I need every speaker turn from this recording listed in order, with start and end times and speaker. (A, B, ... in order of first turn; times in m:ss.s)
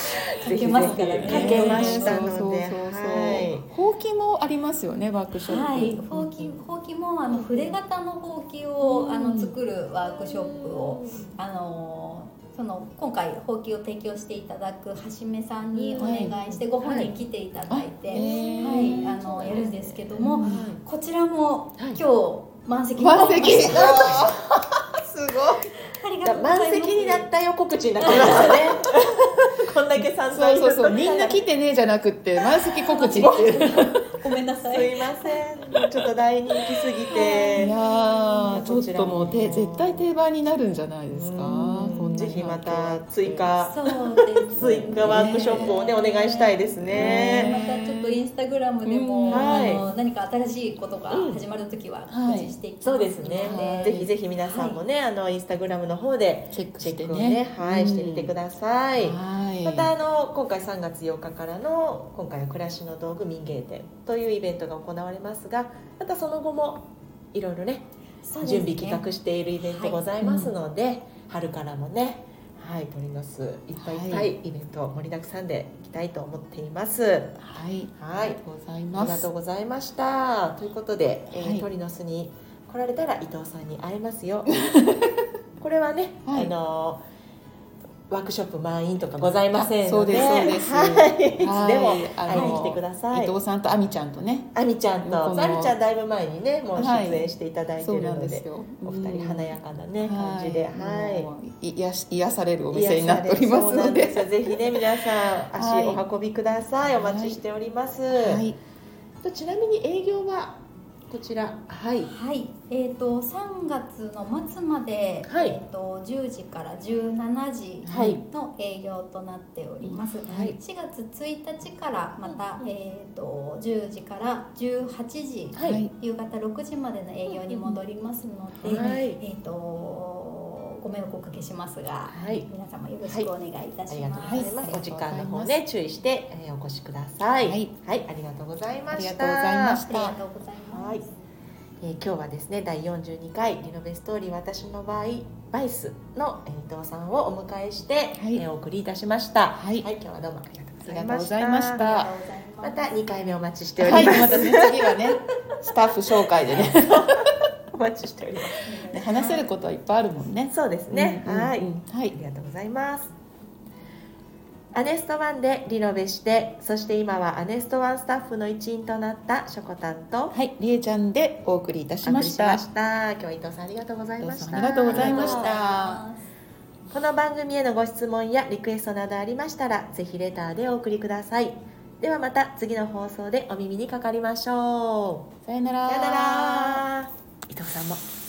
0:00.3-0:03.7 A
0:00.4-0:02.3 B
0:00.5-0:06.3 C
0:05.4-0:24.3 B
0:07.3-0:07.7 A
0:08.8-0:09.5 C
0:10.3-0:11.3 A
0:15.7-0:17.1 A
0:16.0-0:16.4 C
0:17.7-0:19.7 C
0:18.1-0:20.8 A
0:20.2-0:20.7 C
0:23.0-0:25.7 C
0:23.6-0:24.3 A
0:26.0-0:27.3 B
0:26.2-0:31.5 A
0:28.0-0:28.8 B
0:30.2-0:34.1 C
0:32.7-0:35.3 B
0:33.0-0:33.7 A
0:34.6-0:37.7 A
0:37.1-0:38.7 B
0:37.5-0:43.5 C
0:38.5-0:40.1 A
0:41.1-0:43.8 A
0:41.6-0:42.0 B
0:43.6-0:54.8 B
0:44.5-0:47.6 A
0:44.6-0:45.8 C
0:46.9-0:48.2 C
0:48.8-0:49.9 C
0:49.3-0:49.8 A
0:51.1-0:51.4 A
0:52.1-0:52.5 C
0:52.8-1:07.8 A
0:53.4-0:54.1 C
0:56.5-0:58.3 C
0:59.0-0:59.9 C
1:08.2-1:09.0 B
1:08.4-1:17.4 A
1:09.6-1:10.0 B
1:10.2-1:10.5 C
1:13.8-1:14.3 C
1:17.4-1:19.3 C
1:17.9-1:18.4 A
1:18.9-1:24.6 A
1:21.3-1:21.6 C
1:24.7-1:25.1 C
1:25.6-1:27.0 A
1:26.3-1:26.5 C
1:28.1-1:33.4 A
1:29.5-1:35.7 C
1:32.3-1:32.6 B
1:34.5-1:41.3 A
1:36.7-1:44.9 C
1:42.7-1:48.4 A
1:45.5-1:46.0 C
1:47.0-1:47.4 C
1:48.1-1:48.6 C
1:49.2-1:52.1 A
1:52.0-2:14.8 B
1:55.3-1:55.6 A
1:57.8-1:58.2 C
1:57.9-1:58.2 A
1:59.8-2:00.2 C
2:00.2-2:00.6 A
2:05.5-2:05.8 A
2:05.6-2:05.9 C
2:07.3-2:07.7 A
2:08.6-2:09.2 A
2:12.1-2:12.5 A
2:13.9-2:19.9 A
2:14.3-2:15.6 C
2:17.4-2:17.7 C
2:18.9-2:20.2 C
2:19.9-2:21.2 B
2:20.6-2:21.0 A
2:21.8-2:31.8 A
2:28.1-2:28.4 C
2:29.6-2:29.8 C
2:30.8-2:32.1 C
2:31.7-2:32.9 B
2:32.6-2:34.9 A
2:33.8-2:37.3 C
2:36.3-2:38.6 A
2:38.6-2:39.5 B
2:38.9-2:42.1 C
2:40.5-2:43.1 A
2:44.7-2:50.3 A
2:50.3-2:52.6 C
2:52.0-2:55.5 A
2:54.2-2:56.0 C
2:54.5-2:56.2 B
2:56.9-3:05.3 A
3:05.4-3:06.8 C
3:05.9-3:08.0 A